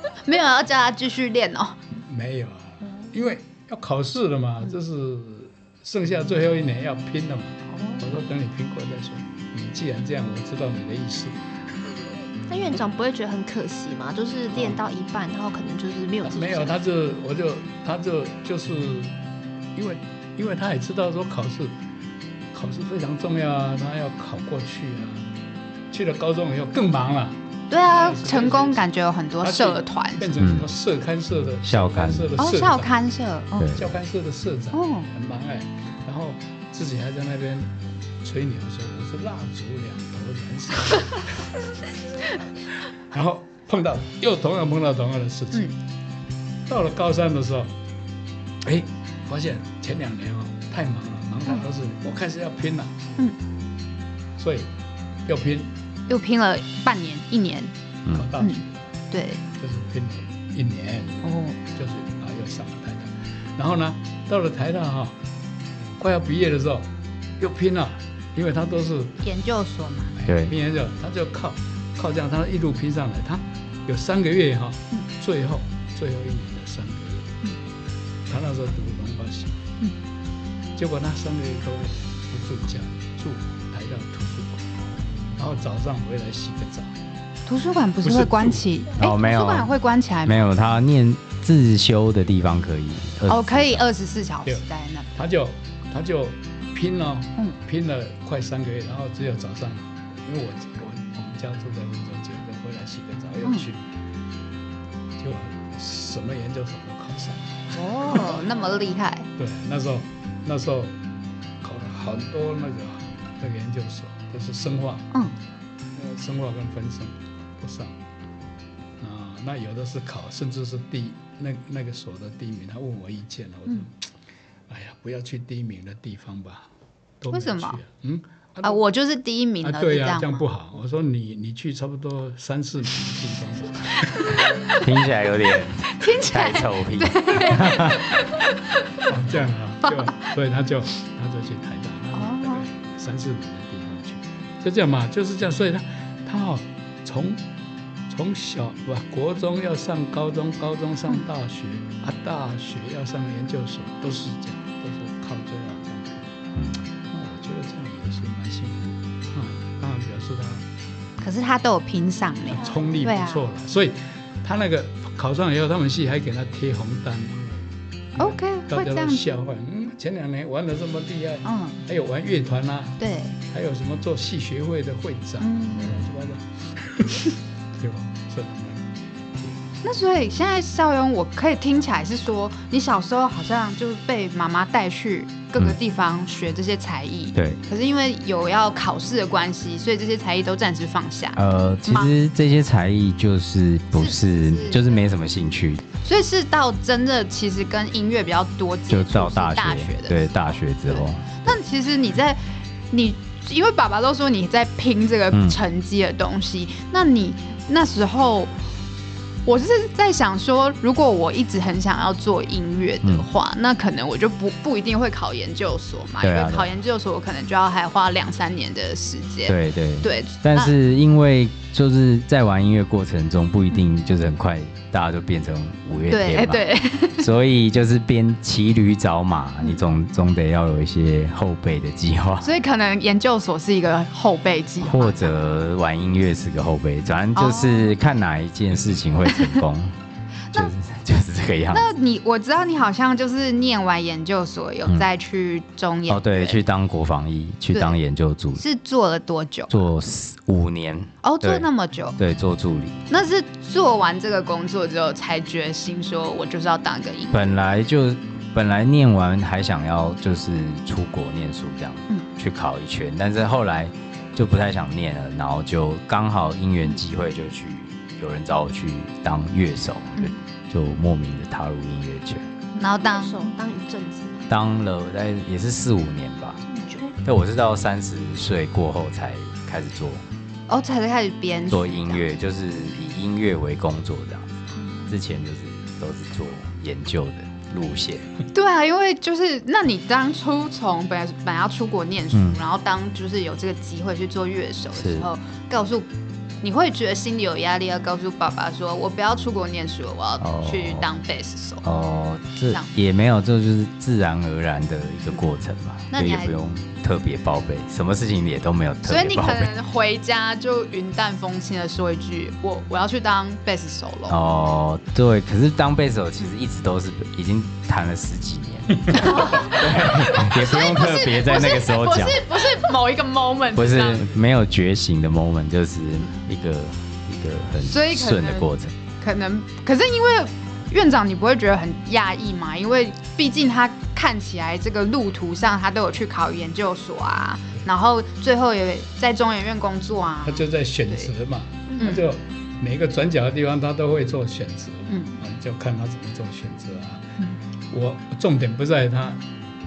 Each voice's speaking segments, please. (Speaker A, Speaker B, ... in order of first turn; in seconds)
Speaker A: 0.2-1.8, 27.7-30.3, 32.4-33.7, 34.7-35.1, 56.1-57.7, 58.4-59.4, 61.2-61.6, 69.2-70.2, 87.5-90.4, 93.3-95.1, 107.8-109.3, 127.3-127.8, 128.6-130.5, 134.6-134.8, 135.9-138.4, 140.0-140.3, 142.1-142.7, 161.2-163.4, 168.2-169.2, 171.4-171.8, 173.0-173.4, 175.4-176.0, 179.8-192.1, 193.9-195.1, 196.0-200.3, 200.9-208.5, 209.5-220.7, 226.1-227.3, 232.4-235.4, 237.3-238.0, 241.7-246.6, 248.6-249.9, 251.2-252.2, 253.1-257.6, 272.8-273.4, 280.7-282.2, 288.5-296.1, 296.6-301.9, 302.7-302.9, 306.1-306.5, 309.1-314.4, 319.1-324.3, 327.8-328.7, 329.2-341.3, 342.0-342.2
Speaker B: 2.1-11.4, 14.5-14.8, 16.2-19.1, 19.8-21.8, 22.5-25.3, 25.9-28.9, 29.4-33.0, 33.7-41.5, 42.5-45.7, 46.7-47.7, 48.6-53.2, 54.4-54.7, 55.2-55.7, 58.1-58.8, 59.5-65.2, 65.8-69.2, 70.2-77.3, 78.3-79.6, 80.8-84.7, 85.4-86.9, 88.0-88.6, 94.5-103.8, 105.2-108.5, 109.4-111.0, 111.6-115.1, 115.9-118.0, 119.0-124.1, 124.7-126.7, 127.2-128.8, 129.6-134.4, 139.0-147.4, 148.1-156.3, 157.1-160.7, 162.5-179.6, 340.4-347.3, 347.9-349.4
Speaker C: 12.5-16.8, 162.5-163.1, 273.0-274.5, 276.6-277.2, 284.8-285.0
Speaker D: 30.4-30.7, 31.6-32.4, 33.6-33.9, 58.1-58.3, 70.3-70.5, 89.0-89.7, 90.2-93.9, 134.7-138.1, 156.6-156.8, 187.3-187.6, 191.4-195.8, 198.9-201.6, 205.3-205.6, 216.2-216.7, 219.5-226.6, 227.2-232.5, 234.8-239.9, 240.5-241.9, 246.1-248.6, 249.7-253.0, 257.3-272.5, 274.5-276.6, 277.2-280.2, 281.7-288.3, 292.3-292.6, 295.0-295.3, 300.4-301.1, 301.8-309.7, 314.3-322.8, 323.8-328.9